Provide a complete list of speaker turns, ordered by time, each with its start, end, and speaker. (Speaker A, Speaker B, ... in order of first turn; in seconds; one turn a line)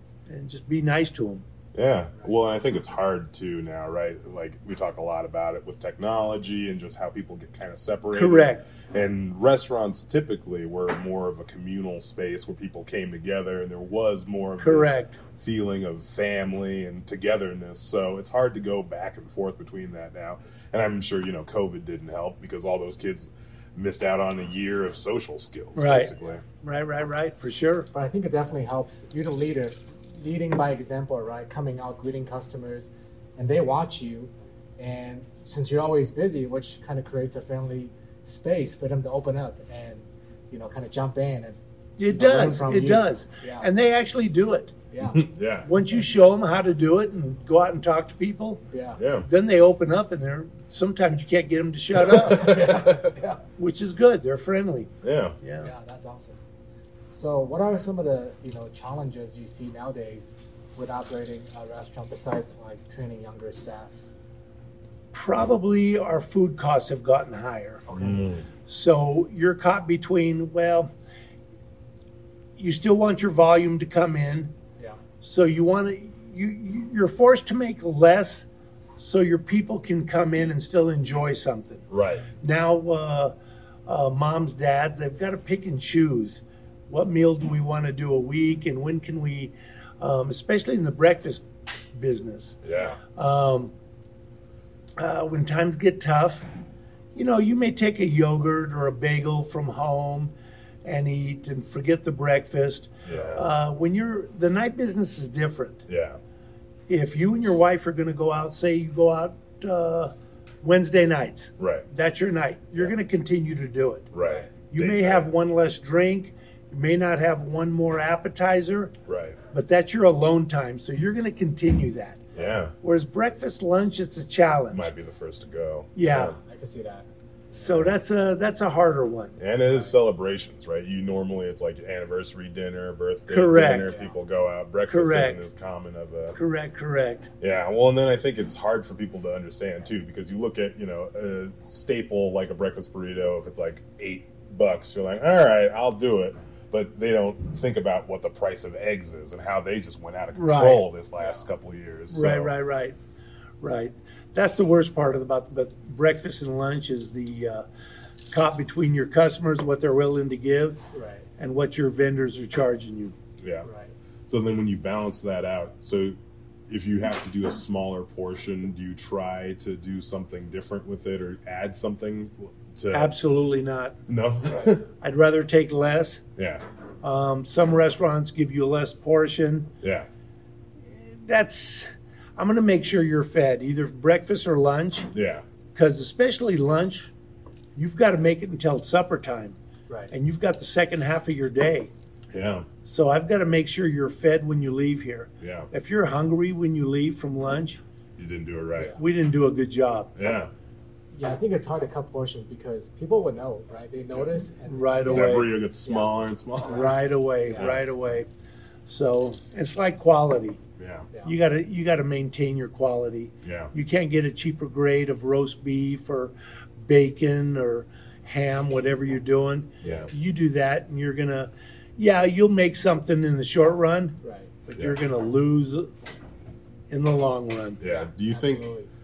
Speaker A: 0.3-1.4
Speaker B: 1.7-26.4
Speaker A: 8.1-8.6
Speaker A: 14.6-15.2
Speaker A: 25.7-27.9
Speaker C: 27.9-43.6
Speaker A: 42.0-44.7
Speaker C: 44.9-45.2
Speaker B: 45.1-45.7
Speaker A: 45.6-48.6
Speaker C: 48.7-49.0
Speaker B: 49.0-49.3
Speaker A: 49.2-52.8
Speaker B: 52.1-53.1
Speaker C: 52.3-53.4
Speaker A: 53.6-54.9
Speaker B: 55.0-55.3
Speaker A: 55.4-55.7
Speaker C: 55.6-56.4
Speaker C: 57.1-64.0
Speaker A: 65.1-67.9
Speaker C: 67.9-68.3
Speaker B: 67.9-68.5
Speaker A: 68.7-70.9
Speaker A: 72.6-74.5
Speaker A: 75.2-81.8
Speaker B: 81.9-82.3
Speaker A: 82.4-83.3
Speaker A: 83.8-92.6
Speaker B: 92.6-93.0
Speaker A: 93.1-93.7
Speaker A: 95.0-96.5
Speaker A: 97.1-100.3
Speaker A: 100.8-105.8
Speaker B: 103.0-103.5
Speaker B: 105.9-106.2
Speaker A: 106.9-114.1
Speaker B: 111.6-111.9
Speaker B: 114.1-115.3
Speaker C: 114.2-114.5
Speaker A: 114.7-118.9
Speaker B: 119.1-119.4
Speaker A: 119.5-122.3
Speaker B: 122.3-122.7
Speaker A: 122.8-124.9
Speaker B: 124.7-126.3
Speaker A: 125.9-126.3
Speaker C: 126.1-127.7
Speaker A: 127.5-129.4
Speaker B: 129.4-136.4
Speaker C: 129.7-129.9
Speaker A: 133.3-133.9
Speaker C: 133.8-134.1
Speaker A: 134.9-135.4
Speaker A: 136.3-137.3
Speaker B: 137.4-152.5
Speaker A: 150.3-150.8
Speaker A: 152.1-152.9
Speaker A: 153.6-157.6
Speaker A: 158.3-160.8
Speaker C: 160.9-161.2
Speaker A: 161.4-163.1
Speaker B: 163.4-163.7
Speaker C: 163.6-163.9
Speaker B: 164.3-166.1
Speaker B: 166.7-173.1
Speaker A: 172.9-174.0
Speaker B: 174.1-174.9
Speaker A: 175.0-176.2
Speaker B: 176.4-176.6
Speaker A: 177.0-179.7
Speaker B: 179.8-180.1
Speaker A: 180.9-185.1
Speaker B: 185.1-185.4
Speaker A: 185.7-187.1
Speaker A: 187.8-189.6
Speaker A: 190.1-191.9
Speaker B: 192.3-192.7
Speaker A: 192.8-197.8
Speaker B: 195.4-195.7
Speaker B: 198.2-199.0
Speaker A: 199.0-200.1
Speaker B: 200.2-200.5
Speaker C: 201.1-206.1
Speaker A: 204.7-205.5
Speaker B: 205.1-207.0
Speaker A: 206.7-208.3
Speaker B: 207.5-207.8
Speaker A: 208.9-210.6
Speaker B: 210.8-211.1
Speaker A: 211.2-225.9
Speaker B: 213.4-213.7
Speaker B: 219.8-220.1
Speaker C: 224.2-224.5
Speaker A: 226.9-227.8
Speaker B: 227.8-228.7
Speaker C: 227.8-228.9